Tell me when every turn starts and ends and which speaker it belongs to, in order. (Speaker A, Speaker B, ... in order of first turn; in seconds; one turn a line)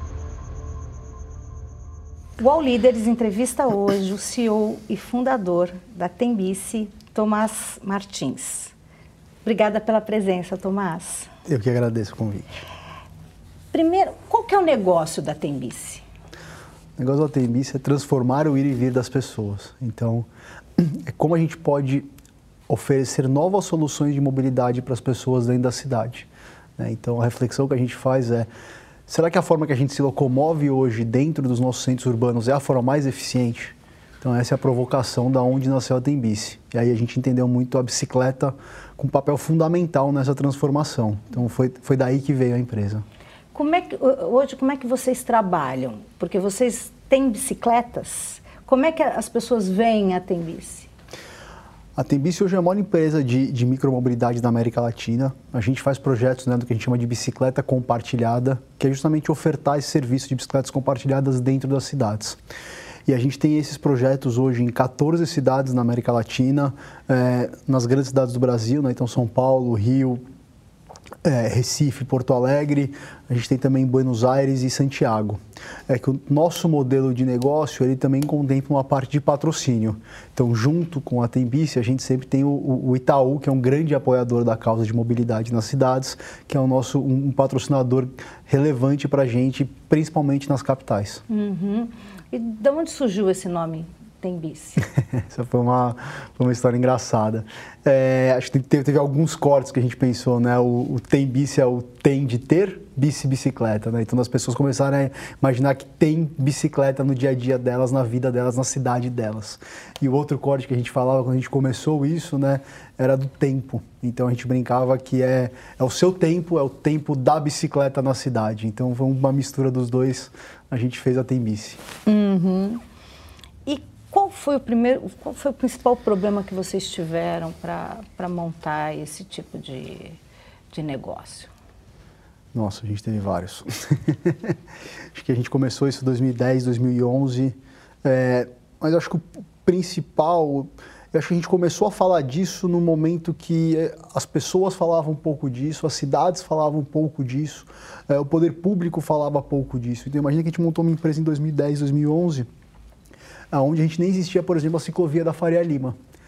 Speaker A: 2.4-8.7
Speaker A: 9.4-11.3
Speaker B: 11.4-12.5
Speaker A: 13.7-16.0
Speaker B: 17.0-22.1
Speaker B: 22.7-28.5
Speaker B: 29.1-43.0
Speaker A: 43.5-50.9
Speaker B: 52.0-62.4
Speaker B: 63.0-70.2
Speaker B: 71.2-91.2
Speaker A: 91.3-94.8
Speaker B: 95.1-121.8
Speaker A: 122.0-122.8
Speaker A: 123.7-130.2
Speaker A: 130.7-131.5
Speaker B: 132.5-134.6
Speaker B: 135.1-152.5
Speaker B: 153.5-156.0